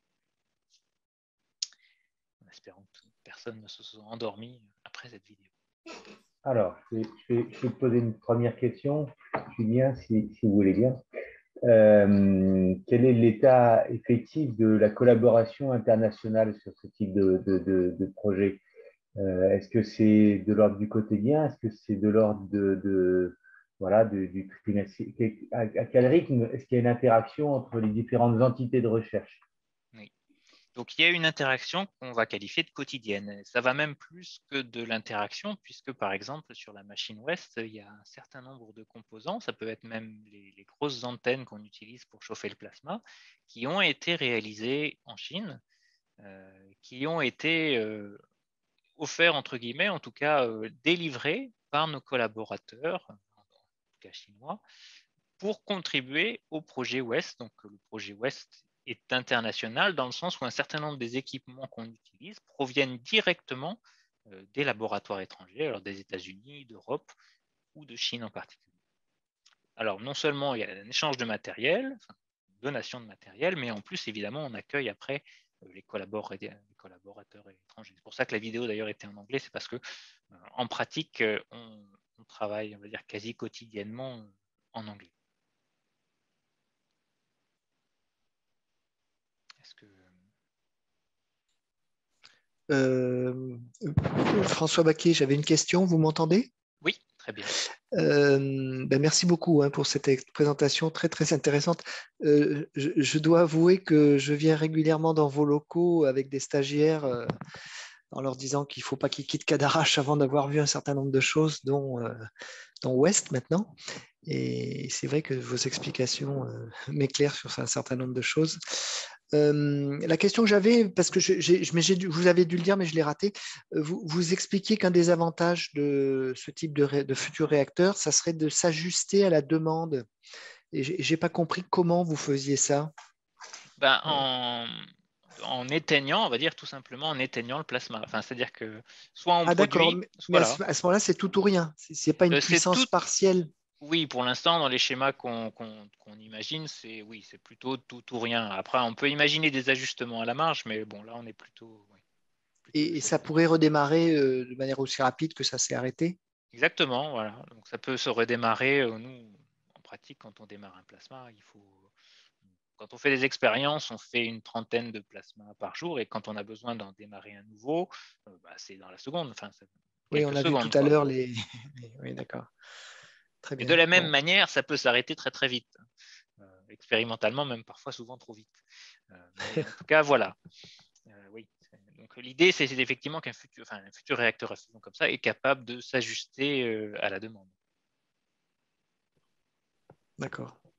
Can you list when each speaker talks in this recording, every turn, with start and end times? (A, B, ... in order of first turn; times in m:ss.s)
0:02.4-0:05.5 A
0:06.4-0:11.0 B
0:11.6-0:18.6 B
0:19.2-0:29.4 B
0:30.8-0:45.6 A
0:46.2-0:48.2 A
0:49.0-0:53.2 A
0:54.0-0:54.6 A
0:55.4-1:07.1 A
1:07.8-1:08.7 A
1:09.8-1:19.8 A
1:20.3-1:25.1 A
1:29.6-1:30.2 A
1:32.7-1:36.5 C
1:36.8-1:37.5 A
1:37.9-1:47.3 C
1:48.1-1:52.3 C
1:52.8-1:53.7 C
1:54.2-2:10.1 C
2:10.7-2:12.9 C
2:13.8-2:20.6 A
2:19.5-2:23.5 C
2:22.3-2:22.9 A
2:23.8-2:32.0 A
2:32.7-2:33.2 A
2:32.7-2:36.2 C
2:36.5-2:41.9 A
2:42.8-2:51.0 A
2:50.1-2:52.5 C
2:53.4-2:54.1 C
2:53.6-2:55.8 A
2:56.4-3:00.4 A
3:01.1-3:07.5 A
3:10.2-3:10.6 C